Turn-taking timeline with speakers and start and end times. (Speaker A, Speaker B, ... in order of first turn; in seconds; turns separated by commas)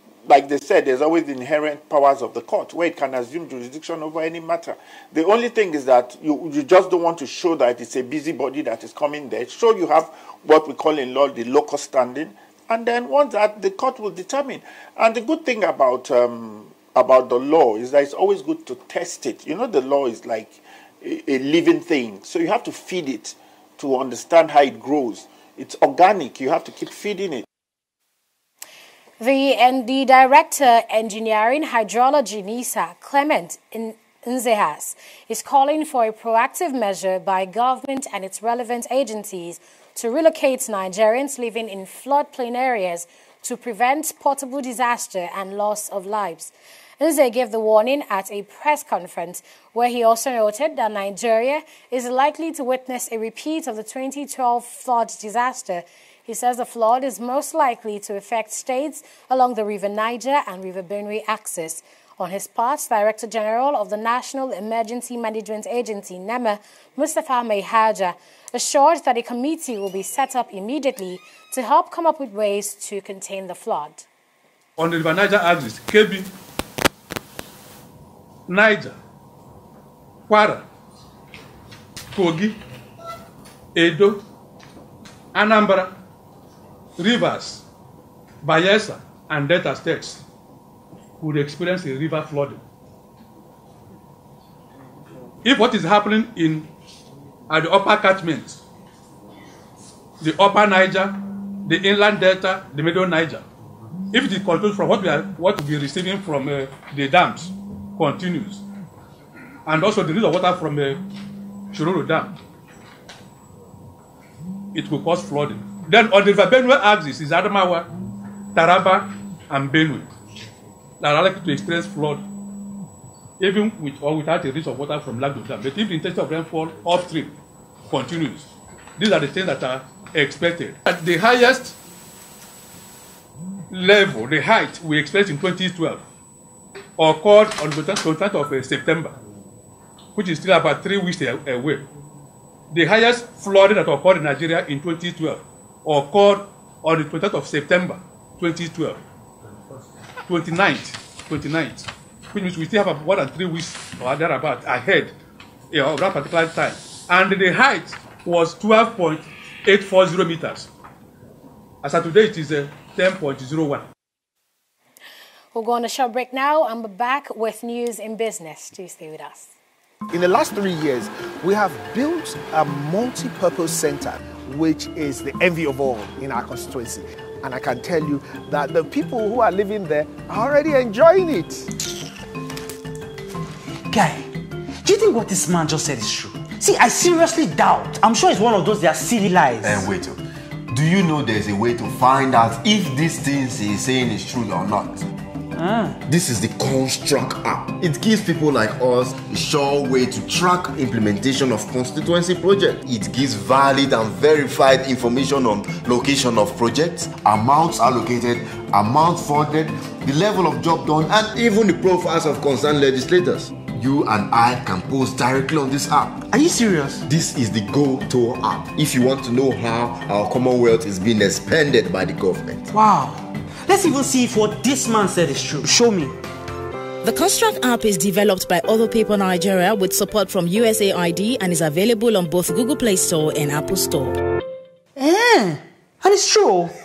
Speaker A: 0.2-27.4, Speaker B: 29.2-74.0, Speaker C: 74.8-76.3, Speaker C: 78.5-79.0, Speaker C: 80.3-80.6, Speaker C: 82.1-82.5, Speaker C: 83.7-84.2, Speaker C: 85.3-85.9, Speaker C: 87.0-87.6, Speaker C: 88.4-90.2, Speaker C: 91.2-92.6, Speaker C: 95.4-96.7, Speaker C: 97.5-98.6, Speaker C: 100.2-103.4, Speaker C: 104.1-108.6, Speaker C: 109.7-111.0, Speaker C: 111.7-112.3, Speaker C: 114.7-117.9, Speaker C: 118.5-120.1, Speaker C: 121.0-122.2, Speaker C: 123.4-127.3, Speaker C: 127.9-131.8, Speaker C: 133.7-136.0, Speaker C: 137.0-139.1, Speaker C: 140.1-141.8, Speaker C: 142.7-149.0, Speaker C: 150.3-155.1, Speaker C: 155.7-160.7, Speaker C: 161.8-163.9, Speaker B: 165.5-169.5, Speaker D: 170.1-181.7, Speaker E: 183.9-184.3, Speaker E: 184.8-189.9, Speaker F: 189.6-195.0, Speaker F: 196.1-216.2, Speaker E: 216.3-217.0, Speaker F: 217.0-222.7, Speaker E: 222.7-226.1, Speaker G: 227.0-234.2, Speaker E: 235.0-236.7